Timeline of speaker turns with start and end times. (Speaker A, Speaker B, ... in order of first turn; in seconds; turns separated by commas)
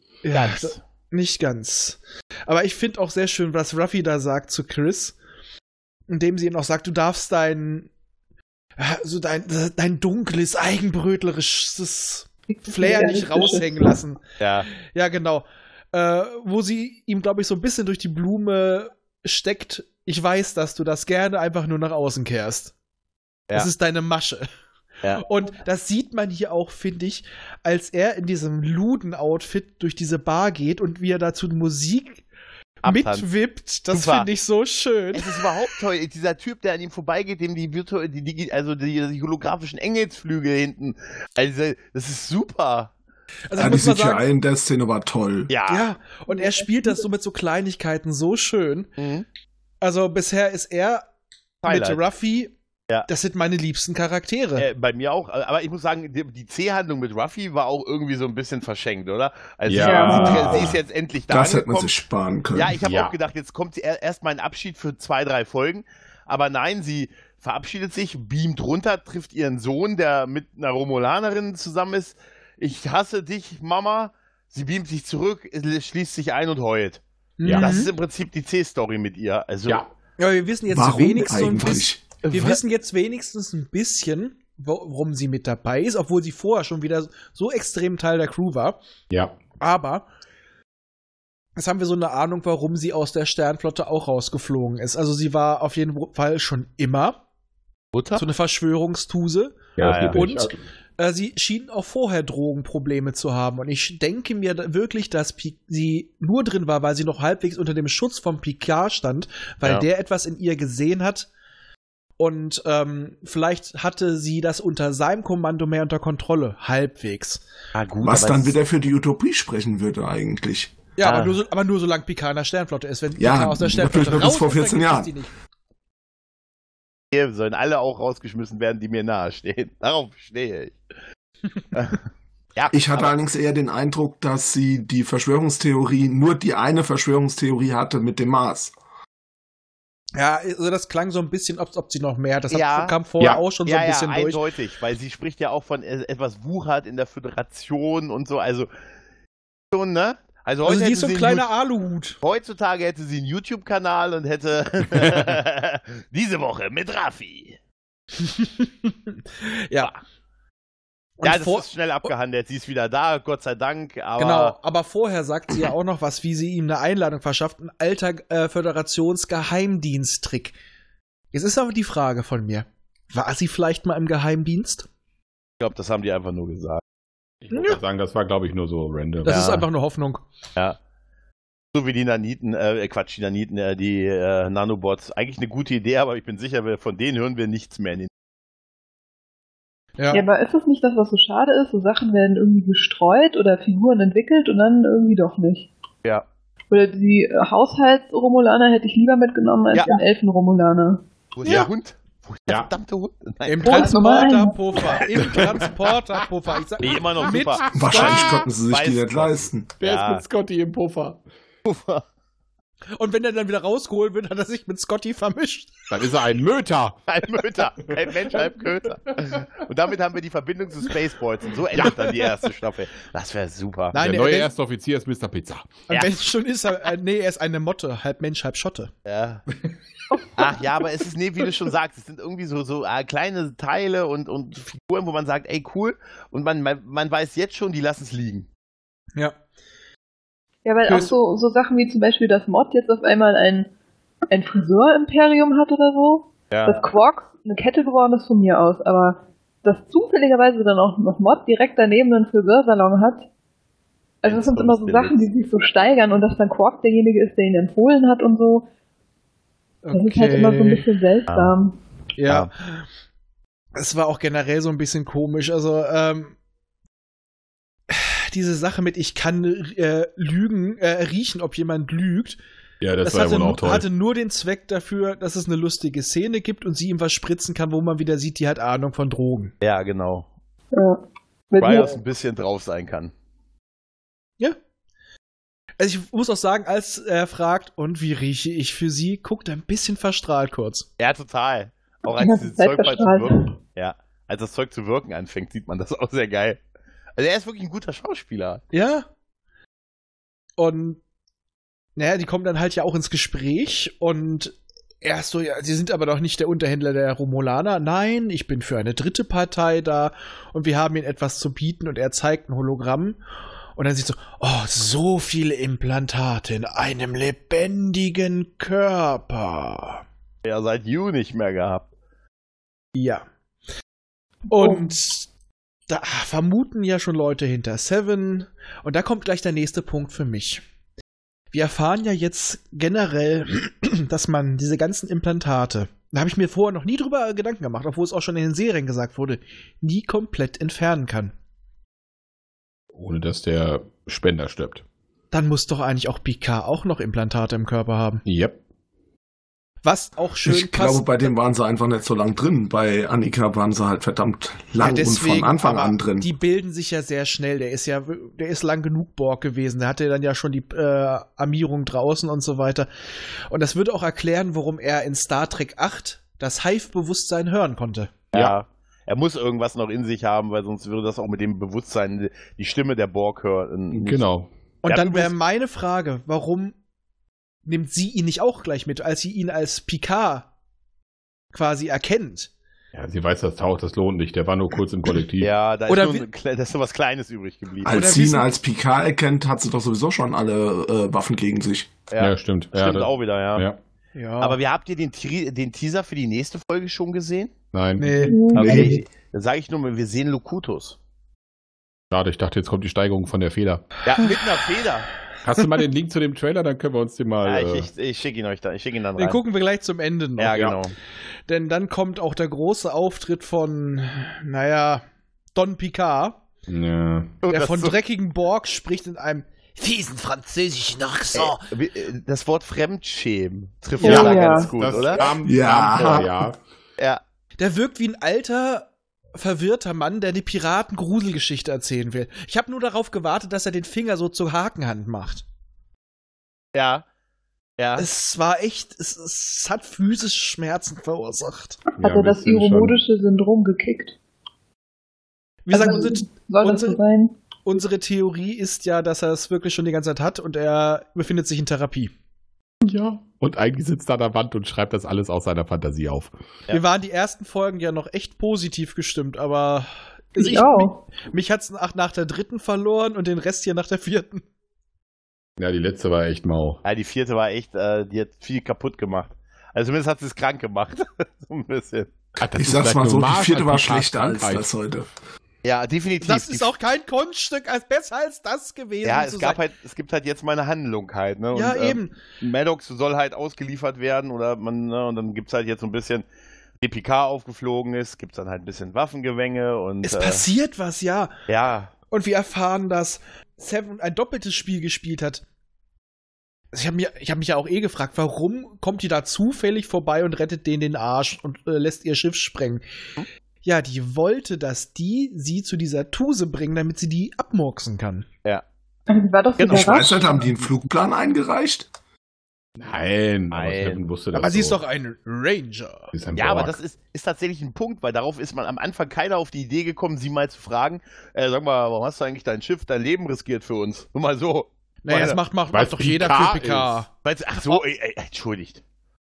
Speaker A: 0.2-5.2, Speaker B: 0.3-0.8, Speaker A: 6.1-7.9, Speaker A: 8.8-14.2, Speaker C: 12.5-14.0, Speaker B: 14.4-14.7, Speaker A: 14.8-22.7, Speaker A: 23.5-24.5, Speaker A: 25.2-32.2, Speaker A: 32.8-35.5, Speaker B: 32.8-33.3, Speaker B: 33.9-34.3, Speaker B: 35.1-42.9, Speaker A: 43.5-44.2, Speaker D: 43.6-45.5, Speaker B: 45.5-45.9, Speaker A: 45.7-48.9, Speaker C: 46.3-47.0, Speaker B: 49.0-49.3, Speaker A: 49.8-51.0, Speaker B: 51.6-52.0, Speaker A: 51.6-52.5, Speaker A: 53.1-54.7, Speaker B: 54.6-61.9, Speaker E: 59.7-60.8, Speaker C: 59.8-60.7, Speaker D: 61.3-62.8, Speaker B: 62.5-77.0, Speaker E: 62.8-63.1, Speaker A: 77.4-77.9, Speaker E: 77.4-77.8, Speaker B: 77.5-79.8, Speaker A: 80.2-88.8, Speaker D: 80.7-82.3, Speaker E: 89.1-89.4, Speaker A: 89.6-90.1, Speaker A: 91.6-97.2, Speaker B: 97.9-98.2, Speaker A: 98.2-99.6, Speaker E: 99.8-100.6, Speaker B: 99.8-100.2, Speaker A: 100.1-111.3, Speaker A: 112.2-117.4, Speaker B: 117.8-118.5, Speaker D: 118.0-120.7, Speaker A: 121.0-125.3, Speaker B: 121.0-121.4, Speaker D: 123.2-125.1, Speaker B: 127.1-130.8, Speaker B: 131.7-132.0, Speaker B: 132.6-133.1, Speaker D: 132.7-138.7, Speaker A: 140.2-144.4, Speaker B: 142.5-143.0, Speaker B: 143.7-148.7, Speaker B: 149.7-151.5, Speaker A: 150.6-152.2, Speaker B: 152.2-157.6, Speaker E: 154.9-155.2, Speaker A: 158.2-159.9, Speaker A: 161.2-162.1, Speaker B: 161.2-164.6, Speaker A: 164.2-170.6, Speaker A: 171.3-174.9, Speaker B: 175.6-176.8, Speaker E: 177.4-179.6, Speaker A: 177.5-177.8, Speaker A: 179.2-180.2, Speaker B: 179.3-179.7, Speaker B: 181.7-188.1, Speaker A: 190.0-190.2, Speaker C: 190.1-195.7, Speaker C: 196.7-201.0, Speaker B: 201.4-203.9, Speaker A: 203.5-208.3, Speaker C: 203.6-204.8, Speaker E: 205.2-205.6, Speaker B: 206.8-210.2, Speaker D: 207.7-209.7, Speaker E: 207.9-208.3, Speaker E: 209.8-211.2, Speaker B: 211.7-212.0, Speaker A: 213.0-215.8, Speaker E: 215.9-217.0, Speaker B: 217.1-223.9, Speaker E: 217.9-219.4, Speaker A: 223.9-224.5, Speaker E: 223.9-225.8, Speaker A: 225.9-228.9, Speaker B: 229.1-229.4, Speaker C: 230.1-230.4, Speaker B: 230.4-238.5, Speaker C: 240.7-243.7, Speaker A: 240.9-241.2, Speaker C: 244.3-253.3, Speaker B: 246.5-246.8, Speaker C: 254.2-258.7, Speaker B: 254.2-255.2, Speaker A: 259.8-260.9, Speaker C: 259.9-261.8, Speaker B: 261.3-261.6, Speaker A: 262.2-262.9, Speaker A: 263.8-266.4, Speaker A: 267.9-272.4, Speaker E: 272.8-273.9, Speaker A: 273.0-279.5, Speaker B: 279.6-280.3, Speaker C: 280.7-282.0, Speaker B: 281.6-283.1, Speaker A: 285.8-290.9, Speaker B: 291.0-296.6, Speaker C: 292.1-293.5, Speaker B: 297.2-298.6, Speaker A: 298.7-299.1, Speaker A: 300.6-301.0, Speaker A: 302.0-313.2, Speaker A: 313.8-320.0, Speaker B: 320.4-321.9, Speaker A: 322.9-323.2, Speaker A: 324.5-325.3, Speaker C: 324.5-324.8, Speaker A: 325.9-330.6, Speaker A: 331.5-341.3, Speaker E: 342.9-344.8, Speaker A: 345.3-348.2, Speaker E: 348.2-348.6, Speaker A: 349.8-351.3, Speaker D: 350.4-356.3, Speaker A: 354.8-362.9, Speaker A: 363.5-368.1, Speaker B: 368.3-374.2, Speaker E: 373.9-374.5, Speaker A: 374.8-376.8, Speaker B: 374.9-375.3, Speaker A: 377.7-380.5, Speaker A: 381.5-382.5, Speaker E: 382.9-385.5, Speaker B: 385.4-388.0, Speaker A: 385.9-386.3, Speaker D: 387.8-391.9, Speaker A: 387.9-388.5, Speaker B: 392.1-393.7, Speaker E: 392.2-393.8, Speaker A: 394.1-394.6, Speaker B: 394.4-397.5, Speaker E: 397.7-398.2, Speaker A: 398.0-399.0, Speaker C: 398.2-399.0, Speaker B: 398.5-401.0, Speaker E: 402.1-403.9, Speaker B: 404.1-405.1, Speaker E: 405.4-407.9, Speaker B: 407.4-409.4, Speaker A: 409.2-410.6, Speaker B: 410.4-410.9, Speaker A: 411.5-415.0, Speaker A: 415.6-416.4, Speaker E: 416.7-417.4, Speaker B: 417.4-417.9, Speaker A: 417.5-421.6, Speaker B: 421.3-425.3, Speaker C: 424.0-424.7, Speaker A: 424.0-424.3, Speaker E: 424.0-426.6, Speaker D: 425.4-426.5, Speaker A: 427.6-435.4, Speaker B: 436.8-437.1, Speaker B: 437.8-438.1, Speaker A: 438.0-441.8, Speaker C: 442.0-444.2, Speaker E: 442.0-443.0, Speaker A: 445.7-447.0, Speaker C: 445.7-447.4, Speaker A: 447.6-452.1, Speaker E: 452.8-456.3, Speaker A: 456.7-464.4, Speaker C: 460.4-461.0, Speaker E: 465.6-466.8, Speaker B: 466.8-472.1, Speaker E: 472.4-474.6, Speaker D: 472.6-475.1, Speaker B: 475.6-476.7, Speaker A: 476.2-479.6, Speaker B: 479.0-486.2, Speaker A: 481.5-482.1, Speaker B: 486.8-490.4, Speaker A: 490.0-491.3, Speaker B: 491.5-491.9, Speaker A: 492.1-495.4, Speaker A: 496.7-502.8, Speaker A: 503.6-508.3, Speaker C: 509.1-510.5, Speaker B: 509.6-509.9, Speaker D: 509.7-511.9, Speaker E: 512.8-514.8, Speaker B: 513.5-514.0, Speaker A: 514.3-516.1, Speaker E: 516.1-516.8, Speaker B: 516.4-525.4, Speaker A: 525.0-527.1, Speaker E: 525.7-527.0, Speaker B: 527.2-528.8